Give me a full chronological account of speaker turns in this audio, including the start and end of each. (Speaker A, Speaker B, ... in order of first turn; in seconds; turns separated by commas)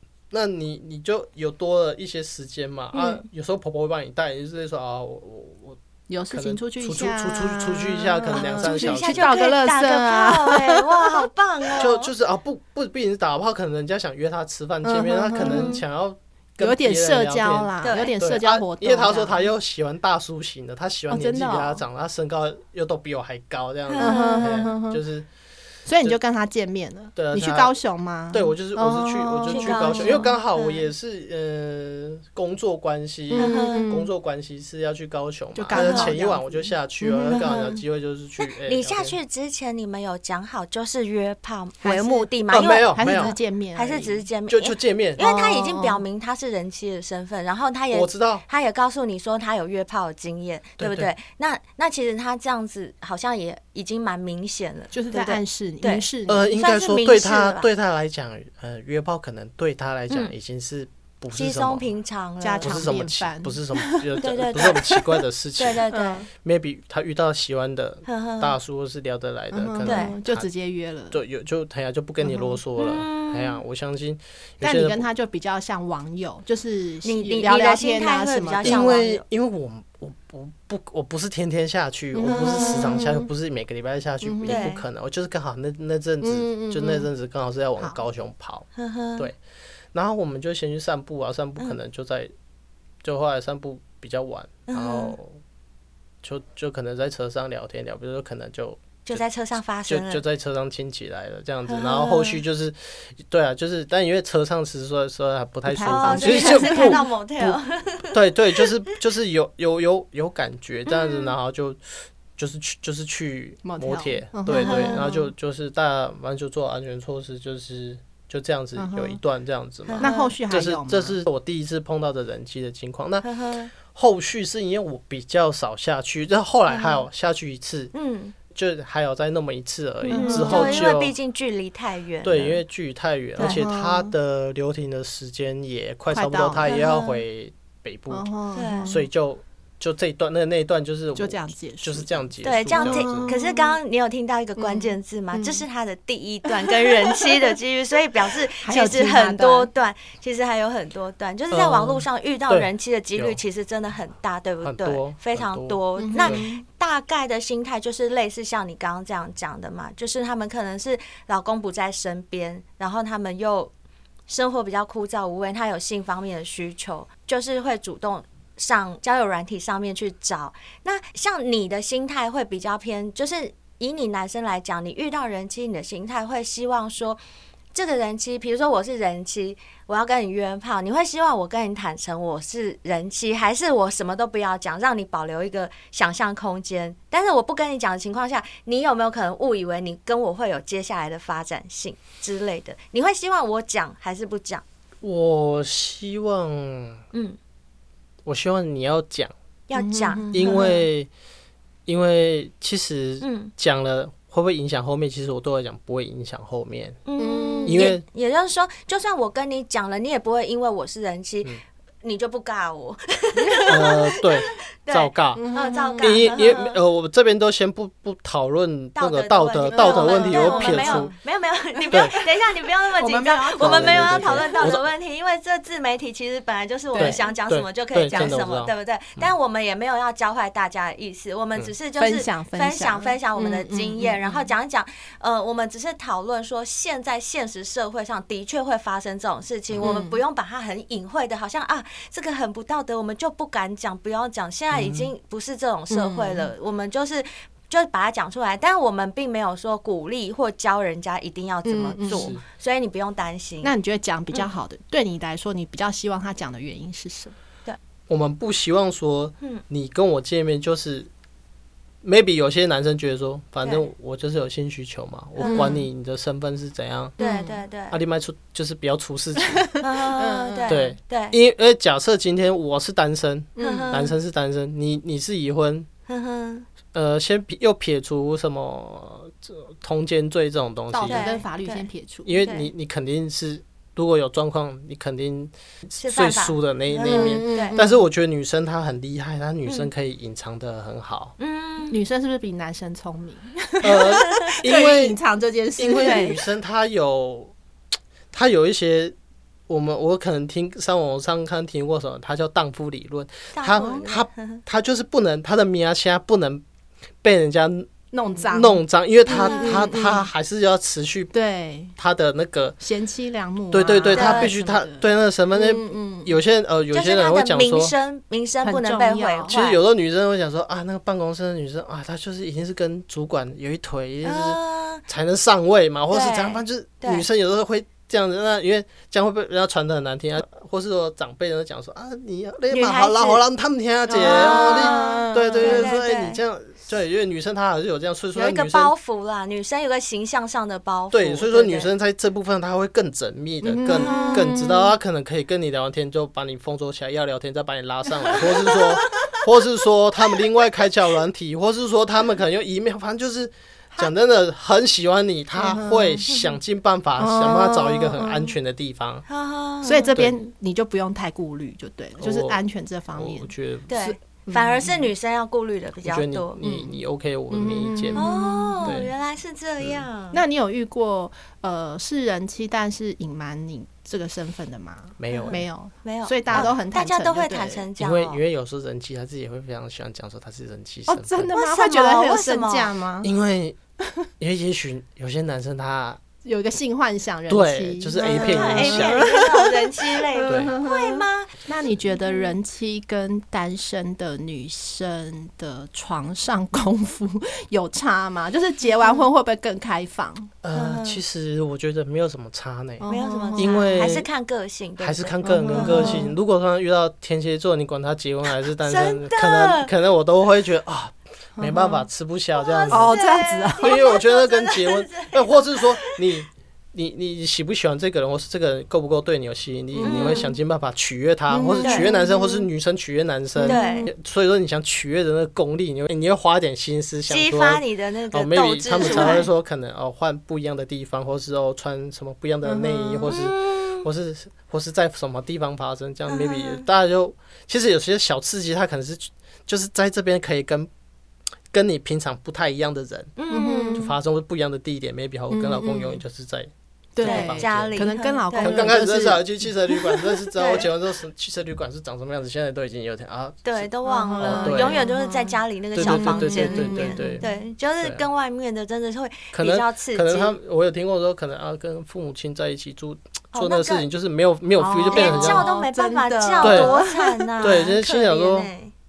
Speaker A: 0.3-9.3, Speaker B: 6.1-11.2, Speaker C: 8.4-12.1, Speaker A: 11.8-25.3, Speaker B: 14.8-15.8, Speaker C: 15.4-15.8, Speaker B: 16.6-19.4, Speaker C: 17.8-18.1, Speaker B: 21.1-21.8, Speaker C: 23.9-24.7, Speaker B: 24.0-25.0, Speaker B: 25.9-30.3, Speaker A: 27.1-27.7, Speaker A: 28.3-39.1, Speaker C: 29.5-30.9, Speaker B: 33.3-34.1, Speaker C: 33.4-33.9, Speaker B: 35.5-37.8, Speaker C: 35.7-36.1, Speaker C: 37.3-37.8, Speaker C: 38.4-57.7, Speaker B: 41.8-42.3, Speaker A: 42.5-43.4, Speaker B: 42.9-44.2, Speaker A: 44.5-45.2, Speaker B: 45.2-46.0, Speaker A: 47.9-48.4, Speaker A: 50.8-51.1, Speaker B: 54.9-56.5, Speaker A: 56.3-61.9, Speaker C: 61.3-62.9, Speaker B: 62.4-65.1, Speaker A: 62.6-65.8, Speaker C: 64.2-64.8, Speaker C: 65.6-66.2, Speaker B: 65.9-66.3, Speaker A: 66.4-70.5, Speaker C: 68.1-68.6, Speaker B: 69.5-71.2, Speaker C: 69.8-70.1, Speaker A: 71.1-75.1, Speaker B: 72.2-72.6, Speaker C: 72.8-73.6, Speaker B: 74.6-78.9, Speaker C: 77.0-79.2, Speaker A: 78.6-89.4, Speaker B: 82.1-83.3, Speaker C: 82.2-83.0, Speaker B: 84.2-84.7, Speaker C: 84.4-84.8, Speaker B: 86.2-87.1, Speaker C: 88.8-89.3, Speaker A: 89.9-92.3, Speaker A: 93.0-95.4, Speaker C: 94.7-95.2, Speaker A: 96.2-99.2, Speaker C: 99.1-100.2, Speaker A: 99.9-107.5, Speaker C: 101.7-102.4, Speaker B: 105.7-107.0, Speaker C: 105.8-108.6, Speaker A: 108.1-123.2, Speaker C: 110.9-111.3, Speaker B: 113.6-115.2, Speaker C: 114.5-115.1, Speaker B: 118.8-119.2, Speaker C: 119.9-120.3, Speaker B: 120.0-121.2, Speaker C: 123.2-123.7, Speaker A: 123.8-127.9, Speaker C: 126.7-127.0, Speaker C: 127.9-128.3, Speaker A: 128.5-131.1, Speaker B: 130.1-130.9, Speaker C: 130.1-132.6, Speaker A: 132.2-138.3, Speaker B: 133.4-134.1, Speaker B: 136.1-136.8, Speaker C: 136.7-137.2, Speaker B: 138.1-139.1, Speaker C: 138.6-138.9, Speaker A: 138.9-143.3, Speaker B: 141.2-143.8, Speaker C: 142.4-163.7, Speaker B: 144.6-145.7, Speaker B: 146.7-147.5, Speaker B: 148.6-149.7, Speaker A: 151.5-153.4, Speaker A: 154.6-156.4, Speaker B: 156.0-156.6, Speaker C: 164.3-177.2, Speaker C: 177.7-194.6, Speaker A: 195.0-197.0, Speaker C: 197.1-197.4, Speaker A: 198.2-199.3, Speaker C: 199.7-200.8, Speaker B: 199.7-200.8, Speaker A: 200.3-201.1, Speaker A: 201.9-207.0, Speaker C: 203.2-203.5, Speaker C: 207.1-211.5, Speaker B: 207.2-207.9, Speaker A: 207.7-208.0, Speaker C: 212.0-216.8, Speaker B: 213.4-213.7, Speaker A: 213.7-215.4, Speaker B: 215.3-216.3, Speaker A: 216.0-221.1, Speaker C: 218.9-253.7, Speaker B: 219.7-221.1, Speaker B: 221.8-222.1, Speaker B: 223.0-224.6, Speaker A: 223.6-224.9, Speaker B: 226.9-227.3, Speaker A: 227.0-229.3, Speaker B: 228.1-228.4, Speaker B: 232.0-234.5, Speaker A: 239.7-240.0, Speaker B: 239.8-240.2, Speaker A: 244.7-245.1, Speaker B: 245.9-246.5, Speaker B: 251.6-252.3, Speaker A: 252.1-252.4, Speaker B: 253.6-257.3, Speaker A: 258.1-261.1, Speaker A: 262.0-267.2, Speaker C: 265.4-265.8, Speaker B: 265.4-265.9, Speaker B: 267.2-267.6, Speaker C: 267.2-268.0, Speaker A: 267.9-269.7, Speaker B: 269.4-270.8, Speaker C: 269.8-271.4, Speaker A: 270.7-275.9, Speaker B: 273.6-274.0, Speaker C: 273.6-274.1, Speaker C: 276.1-276.7, Speaker A: 276.9-281.3, Speaker B: 280.9-282.3, Speaker C: 281.1-281.9, Speaker A: 282.3-291.3, Speaker C: 282.4-282.7, Speaker C: 286.0-287.8, Speaker B: 287.0-288.0, Speaker C: 291.4-292.0, Speaker B: 291.9-296.4, Speaker A: 293.8-295.2, Speaker A: 295.8-297.5, Speaker C: 296.0-296.3, Speaker A: 298.3-299.1, Speaker A: 299.7-306.6, Speaker C: 303.5-304.6, Speaker B: 303.8-304.0, Speaker A: 307.2-307.9, Speaker B: 308.1-310.3, Speaker A: 308.4-311.3, Speaker C: 309.3-309.8, Speaker B: 311.3-311.9, Speaker A: 312.0-312.8, Speaker B: 312.8-316.4, Speaker A: 313.7-317.9, Speaker C: 314.1-314.5, Speaker C: 316.9-319.8, Speaker B: 318.6-319.6, Speaker A: 319.5-338.9, Speaker C: 324.2-325.0, Speaker C: 326.1-327.3, Speaker C: 332.7-333.4, Speaker B: 334.1-335.9, Speaker C: 334.2-336.4, Speaker C: 338.3-341.9, Speaker A: 341.1-359.2, Speaker B: 343.6-344.9, Speaker C: 343.9-344.6, Speaker B: 348.2-349.4, Speaker B: 355.6-356.4, Speaker B: 357.2-358.6, Speaker C: 359.3-360.1, Speaker B: 359.8-364.1, Speaker A: 362.2-362.6, Speaker A: 363.1-364.0, Speaker C: 363.9-366.6, Speaker B: 364.6-365.1, Speaker A: 366.0-368.3, Speaker B: 366.6-366.9, Speaker B: 367.5-369.1, Speaker C: 368.1-370.4, Speaker A: 368.8-369.1, Speaker A: 369.8-370.1, Speaker B: 370.3-377.9, Speaker A: 375.2-375.6, Speaker C: 375.3-378.4, Speaker A: 378.0-381.5, Speaker B: 381.1-383.3, Speaker C: 381.5-382.9, Speaker A: 383.2-383.8, Speaker A: 384.4-386.2, Speaker B: 386.4-400.5, Speaker A: 387.5-389.3, Speaker C: 388.2-391.6, Speaker A: 390.5-390.7, Speaker C: 392.1-392.6, Speaker C: 399.0-399.3, Speaker A: 400.6-404.3, Speaker C: 400.7-401.2, Speaker B: 403.0-404.1, Speaker C: 403.1-406.3, Speaker A: 405.0-413.2, Speaker B: 405.4-406.3, Speaker C: 408.8-409.9, Speaker B: 411.6-412.1, Speaker C: 412.6-416.2, Speaker B: 412.9-414.0, Speaker A: 413.8-440.9, Speaker B: 419.9-420.5, Speaker C: 420.0-420.5, Speaker B: 421.5-422.7, Speaker C: 421.8-422.1, Speaker B: 423.6-424.1, Speaker C: 423.7-424.1, Speaker C: 427.3-429.4, Speaker B: 429.0-429.5, Speaker B: 432.6-433.4, Speaker C: 433.3-434.1, Speaker C: 436.3-436.8, Speaker A: 441.7-443.3, Speaker C: 443.4-444.0, Speaker B: 443.5-444.1, Speaker A: 443.9-448.1, Speaker B: 445.5-446.2, Speaker B: 447.2-450.3, Speaker C: 447.2-448.9, Speaker A: 448.6-455.1, Speaker C: 450.6-450.8, Speaker C: 453.6-460.6, Speaker B: 454.1-457.6, Speaker A: 455.9-457.4, Speaker A: 459.5-465.7, Speaker C: 463.5-464.1, Speaker B: 464.8-467.9, Speaker C: 465.1-468.9, Speaker A: 466.6-466.9, Speaker A: 467.6-468.7